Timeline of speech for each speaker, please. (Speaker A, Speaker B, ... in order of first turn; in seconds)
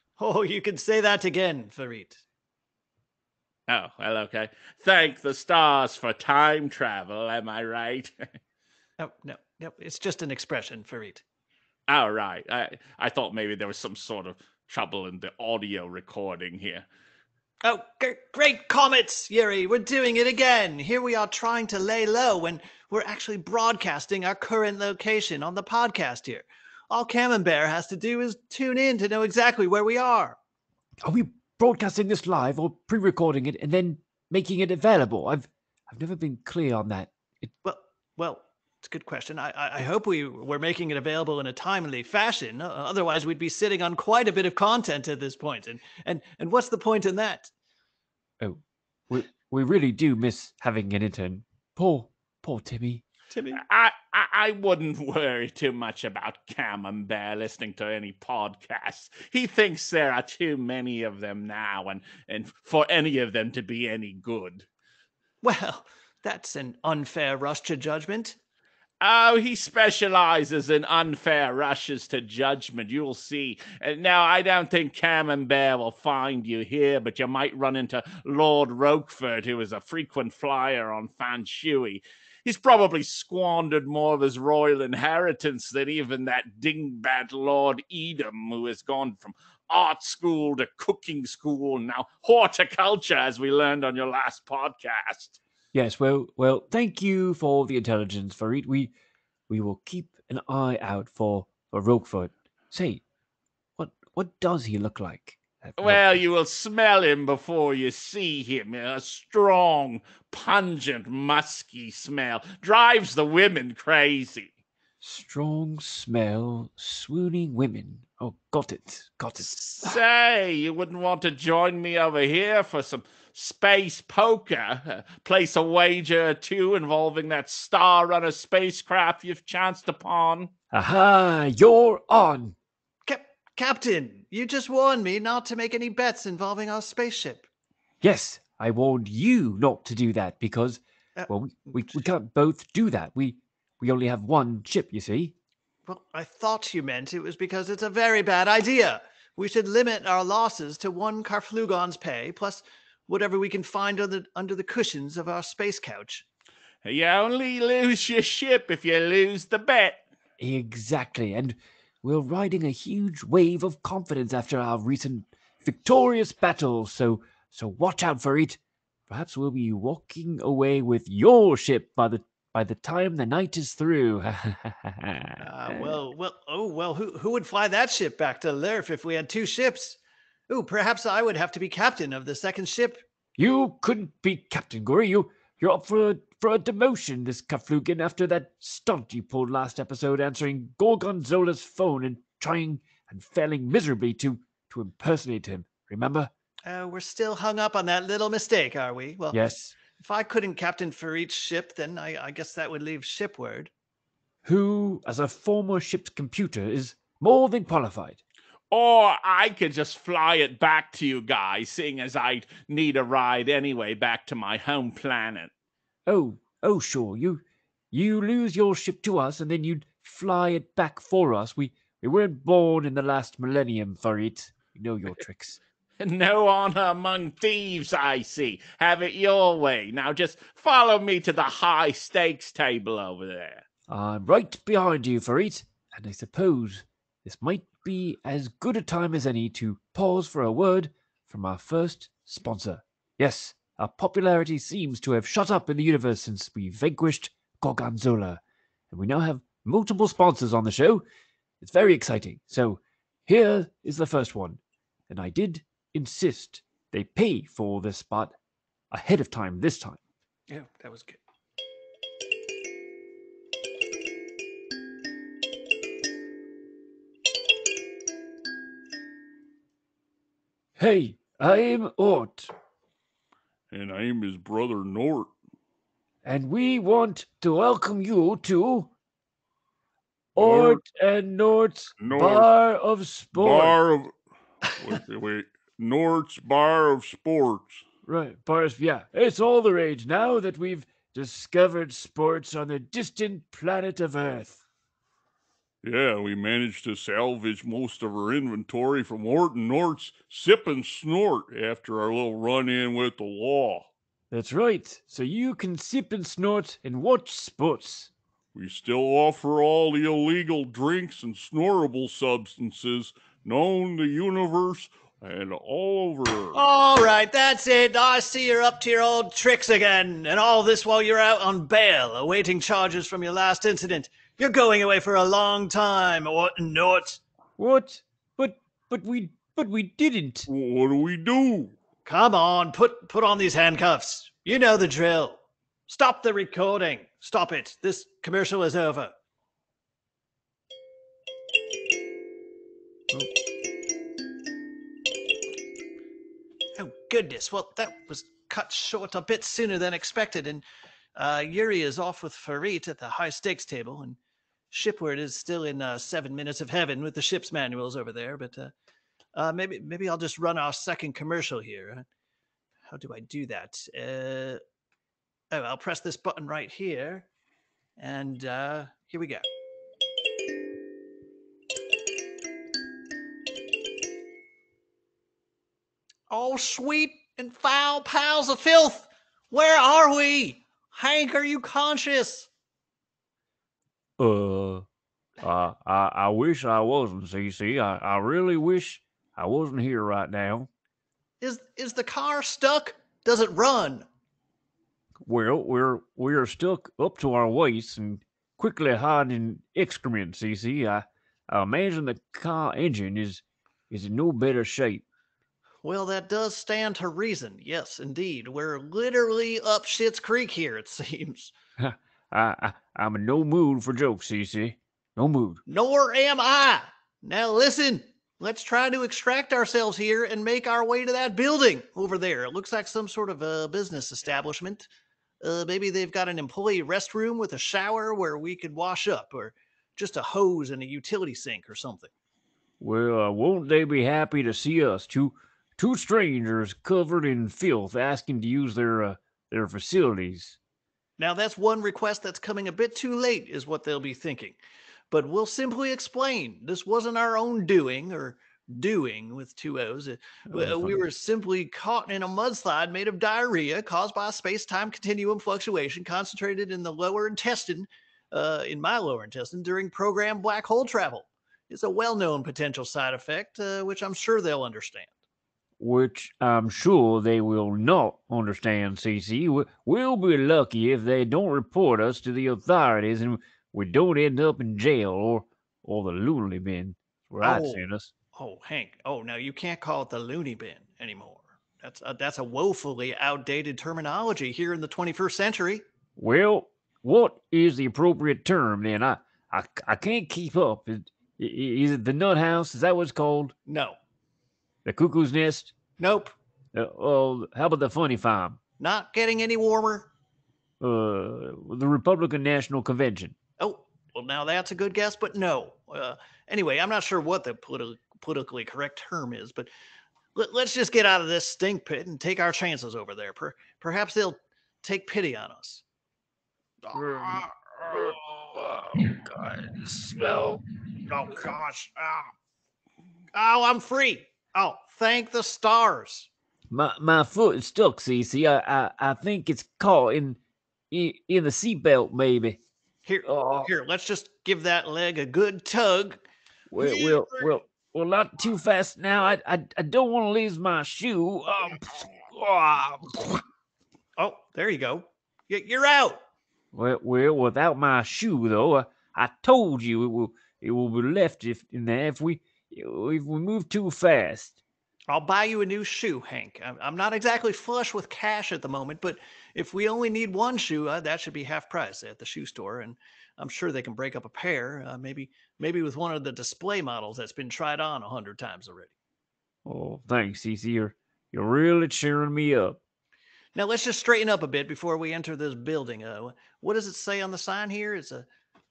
Speaker A: 0.2-2.2, 9.0-11.2, 17.6-30.4, 37.6-47.5, 53.3-53.6, 65.4-68.4, 133.1-137.5, 141.2-141.9, 145.8-156.2, 175.4-183.0, 196.7-203.7, 260.5-261.2, 316.5-327.2, 332.1-339.1, 346.8-350.6, 351.1-354.2, 354.7-358.7, 359.3-362.1, 362.9-364.6, 365.5-367.3, 368.0-369.4, 376.3-382.5, 391.4-394.1, 405.8-411.5, 415.7-424.9, 425.4-432.1, 441.2-444.6, 445.1-465.1, 477.4-477.8, 478.3-485.8, 493.7-494.0, 496.0-496.3, 498.8-500.1, 503.6-509.7, 510.3-515.8, 516.8-518.1, 521.1-522.2, 523.3-526.3, 533.0-536.2, 536.8-537.5, 544.2-546.2, 555.1-568.9, 573.5-578.3
Speaker B: 3.7-8.2, 11.9-16.9, 53.6-64.7, 69.0-95.4, 105.8-114.5, 119.8-130.5, 156.8-160.0, 208.7-215.5, 226.0-233.6
Speaker C: 31.0-37.5, 48.4-53.0, 95.7-98.9, 99.5-103.0, 103.8-106.2, 115.0-119.7, 130.7-132.6, 138.0-145.3, 160.4-175.9, 183.4-196.3, 199.3-199.7, 204.4-208.2, 216.1-225.6, 233.9-248.4, 248.9-251.0, 251.6-258.3, 258.9-260.0, 270.8-272.5, 276.2-278.9, 280.4-283.8, 288.0-294.6, 304.3-308.1, 327.6-330.5, 384.2-384.9, 385.4-390.7, 395.2-405.0, 411.8-415.6, 432.8-440.6, 450.5-450.9, 465.8-478.1, 486.2-493.5, 494.8-495.7, 496.7-498.6, 500.8-503.3, 516.9-520.6, 526.7-530.4, 530.9-532.6, 533.2-533.7, 536.7-543.4, 546.7-554.6, 569.6-572.8
Speaker D: 273.7-275.3, 280.4-280.8, 282.0-282.5, 283.3-284.1, 284.7-287.8, 295.8-303.9, 308.5-316.6, 330.5-331.7